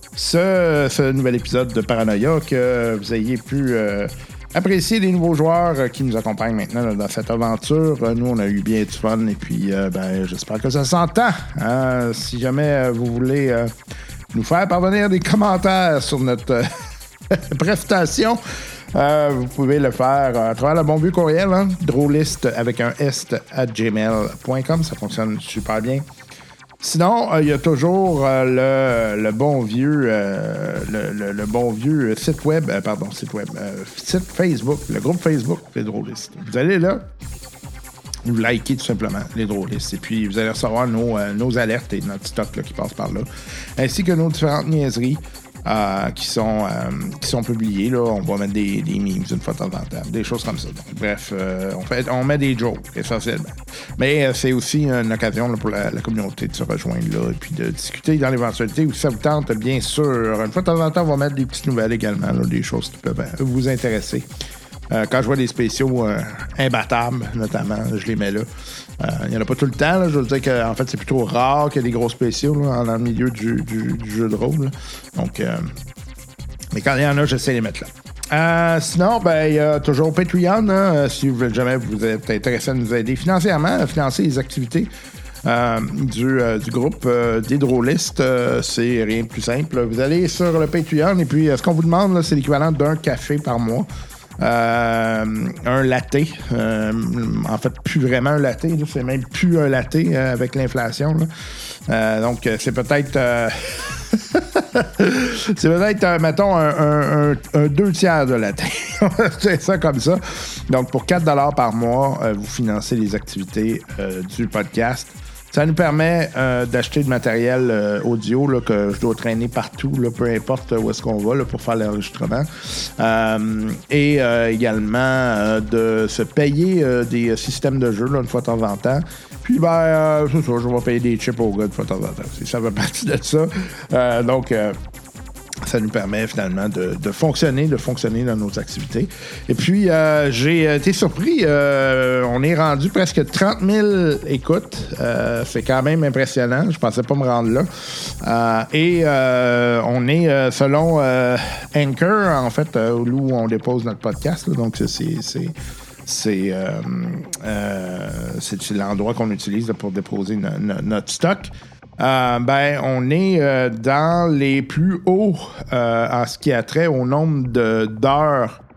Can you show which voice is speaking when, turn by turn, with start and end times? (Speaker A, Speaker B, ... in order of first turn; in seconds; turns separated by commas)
Speaker A: 0.1-13.7, Speaker A: 14.3-16.8, Speaker A: 17.3-18.4, Speaker A: 18.9-26.0, Speaker A: 26.8-37.1, Speaker A: 38.2-64.3, Speaker A: 64.9-75.7, Speaker A: 76.7-84.9, Speaker A: 85.4-93.9, Speaker A: 94.4-101.3, Speaker A: 101.9-134.8, Speaker A: 135.6-155.5, Speaker A: 156.1-168.6